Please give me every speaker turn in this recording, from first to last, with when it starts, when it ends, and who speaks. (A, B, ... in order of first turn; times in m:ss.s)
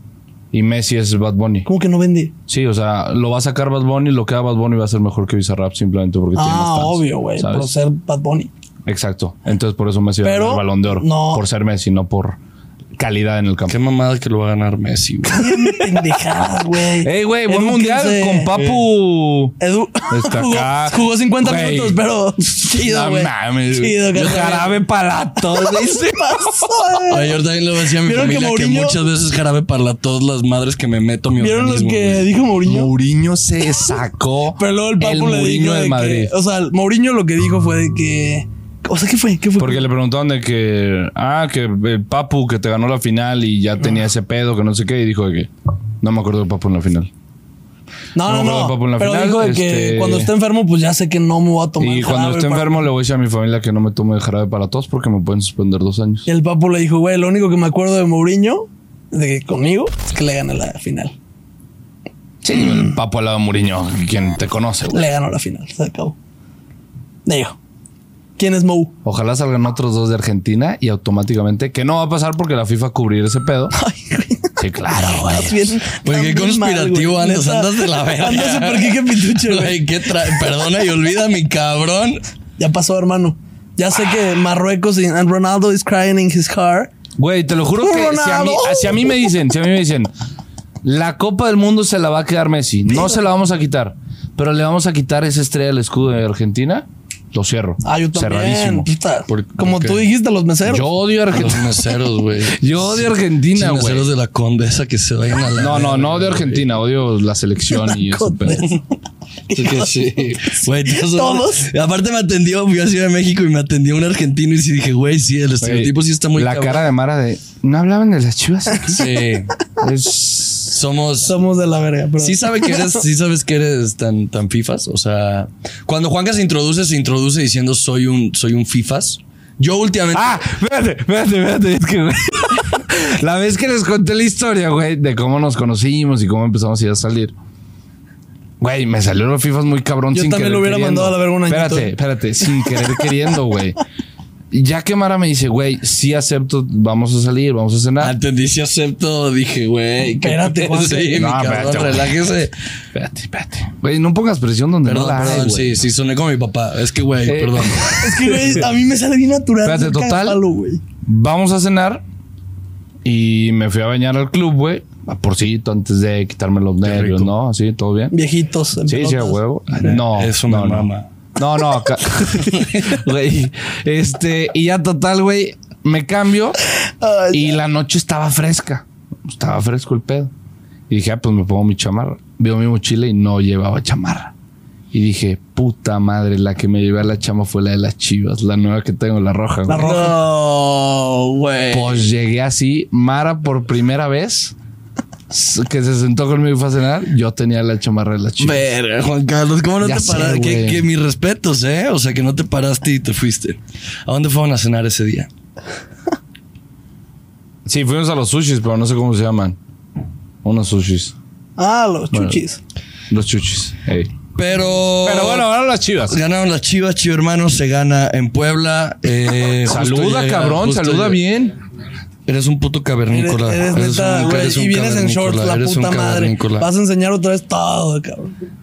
0:00.5-0:01.6 A
0:01.6-0:02.3 B
0:02.5-0:07.7 A
0:06.3-0:08.5 B
0:08.8-0:12.4 A
0:10.2-0:11.4 B
0:13.0-0:13.8 A
0:13.7-0:15.9 C
0:15.2-0:18.5 B
0:17.0-0:19.6 A
0:19.6-0:24.8 B
0:20.1-0:26.9 A
0:25.6-0:27.3 B
0:27.1-0:32.3 C
0:28.0-0:29.0 B
0:31.4-0:32.9 B
0:32.6-0:36.3 A
0:34.6-0:39.9 B
0:39.6-0:45.5 A
0:46.0-0:47.1 A
0:48.1-0:52.8 B
0:48.2-0:50.3 A
0:51.8-0:56.3 A
0:56.2-1:01.1 B
1:02.4-1:05.0 A
1:04.9-1:06.1 B
1:07.2-1:07.6 B
1:08.4-1:08.9 B
1:09.0-1:13.7 A
1:13.7-1:20.4 B
1:14.6-1:15.8 A
1:16.0-1:22.2 C
1:22.6-1:26.9 B
1:27.2-1:30.1 A
1:27.8-1:29.2 B
1:30.8-1:38.9 A
1:37.8-1:40.9 B
1:39.3-1:40.1 C
1:40.6-1:41.8 A
1:41.3-1:46.7 C
1:42.5-1:44.1 A
1:45.5-1:48.6 A
1:47.7-1:48.8 B
1:49.5-1:51.7 B
1:49.5-1:56.8 C
1:55.6-1:59.1 A
1:58.9-1:59.5 C
1:59.8-2:00.8 A
2:00.7-2:01.4 C
2:01.2-2:03.0 B
2:02.2-2:10.4 C
2:10.1-2:17.3 A
2:18.6-2:23.8 A
2:20.1-2:21.9 B
2:24.5-2:28.2 A
2:28.0-2:32.5 C
2:30.2-2:31.4 B
2:31.1-2:32.2 A
2:32.9-2:35.8 A
2:34.8-2:38.3 C
2:37.3-2:38.6 A
2:38.0-2:40.8 B
2:39.6-2:40.4 A
2:41.0-2:42.0 A
2:43.0-2:48.1 A
2:46.8-2:47.3 C
2:48.1-2:49.4 B
2:48.9-2:56.6 A
2:49.7-2:51.1 C
2:57.0-2:57.5 B
2:57.3-3:00.3 A
3:00.9-3:04.3 A
3:04.9-3:10.1 A
3:09.7-3:10.2 B
3:09.7-3:12.0 C
3:11.7-3:14.5 A
3:15.3-3:18.7 A
3:18.4-3:25.3 C
3:19.8-3:20.8 A
3:27.6-3:29.6 A
3:30.4-3:31.1 A
3:31.6-3:32.6 B
3:32.1-3:32.4 A
3:33.1-3:34.1 A
3:34.3-3:35.5 C
3:35.0-3:36.2 A
3:36.1-3:41.2 C
3:39.6-3:41.5 A
3:42.3-3:46.7 C
3:43.1-3:48.3 B